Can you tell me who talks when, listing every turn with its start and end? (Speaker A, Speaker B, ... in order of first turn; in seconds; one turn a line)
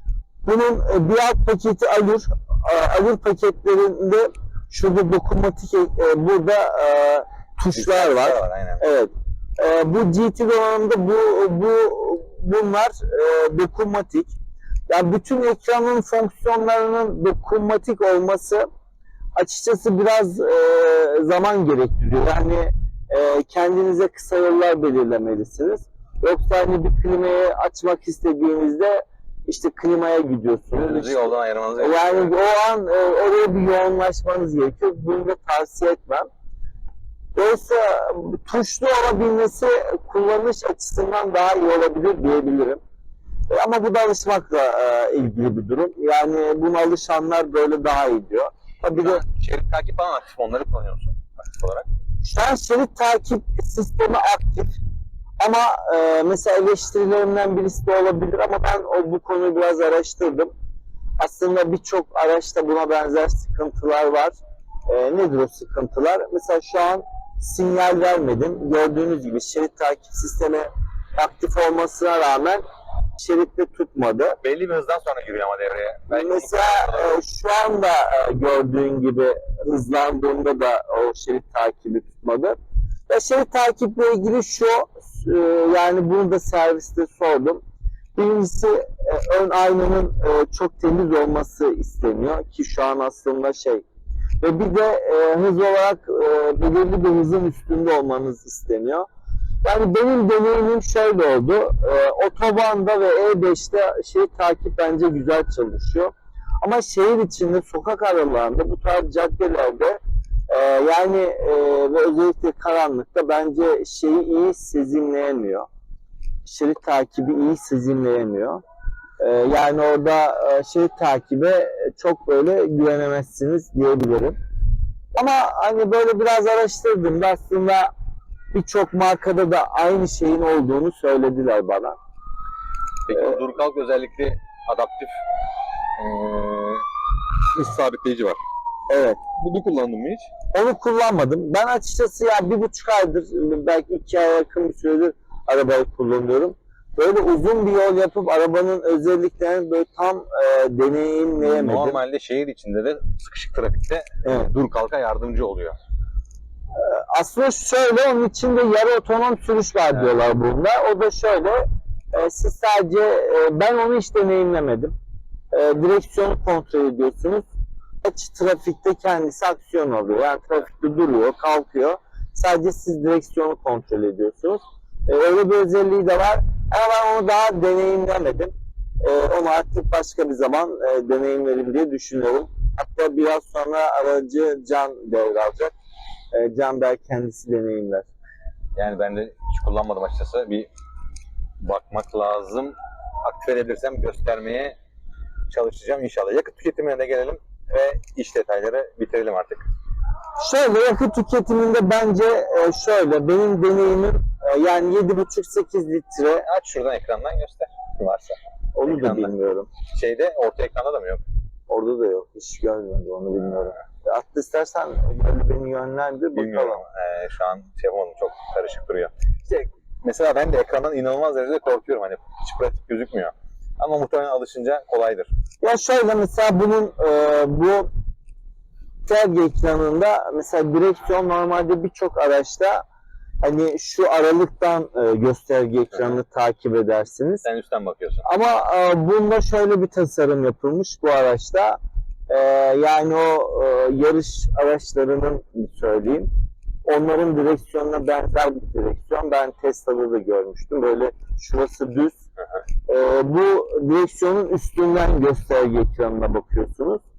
Speaker A: 0.4-14.3
Speaker B: 7.7-8.8
Speaker A: 14.9-18.7
Speaker A: 19.4-36.3
Speaker B: 30.7-32.3
Speaker A: 37.3-42.8
Speaker A: 43.5-49.2
Speaker B: 49.0-51.9
Speaker A: 52.2-54.8
Speaker A: 55.4-60.5
Speaker A: 61.2-72.6
Speaker A: 73.2-74.4
Speaker B: 74.4-77.2
Speaker A: 76.1-82.6
Speaker A: 83.1-87.6
Speaker A: 88.2-93.8
Speaker A: 94.4-99.1
Speaker A: 99.6-115.7
Speaker A: 116.4-118.6
Speaker A: 119.2-124.4
Speaker A: 125.2-127.9
Speaker A: 128.5-131.9
Speaker B: 133.1-135.2
Speaker B: 136.0-136.8
Speaker B: 137.5-138.4
Speaker A: 138.9-139.2
Speaker B: 139.4-140.3
Speaker A: 140.5-152.0
Speaker B: 151.4-155.8
Speaker A: 154.2-154.5
Speaker A: 156.8-164.9
Speaker A: 165.5-167.5
Speaker A: 168.0-185.7
Speaker A: 186.3-188.1
Speaker B: 188.8-190.7
Speaker B: 191.6-194.8
Speaker B: 195.5-199.7
Speaker A: 200.4-206.4
Speaker B: 206.4-211.2
Speaker A: 208.7-209.7
Speaker A: 211.7-216.8
Speaker B: 216.3-225.3
Speaker A: 225.6-227.9
Speaker A: 229.1-232.8
Speaker A: 233.4-237.4
Speaker B: 237.4-238.2
Speaker A: 238.2-241.8
Speaker A: 242.3-246.3
Speaker A: 246.8-252.2
Speaker A: 252.9-257.0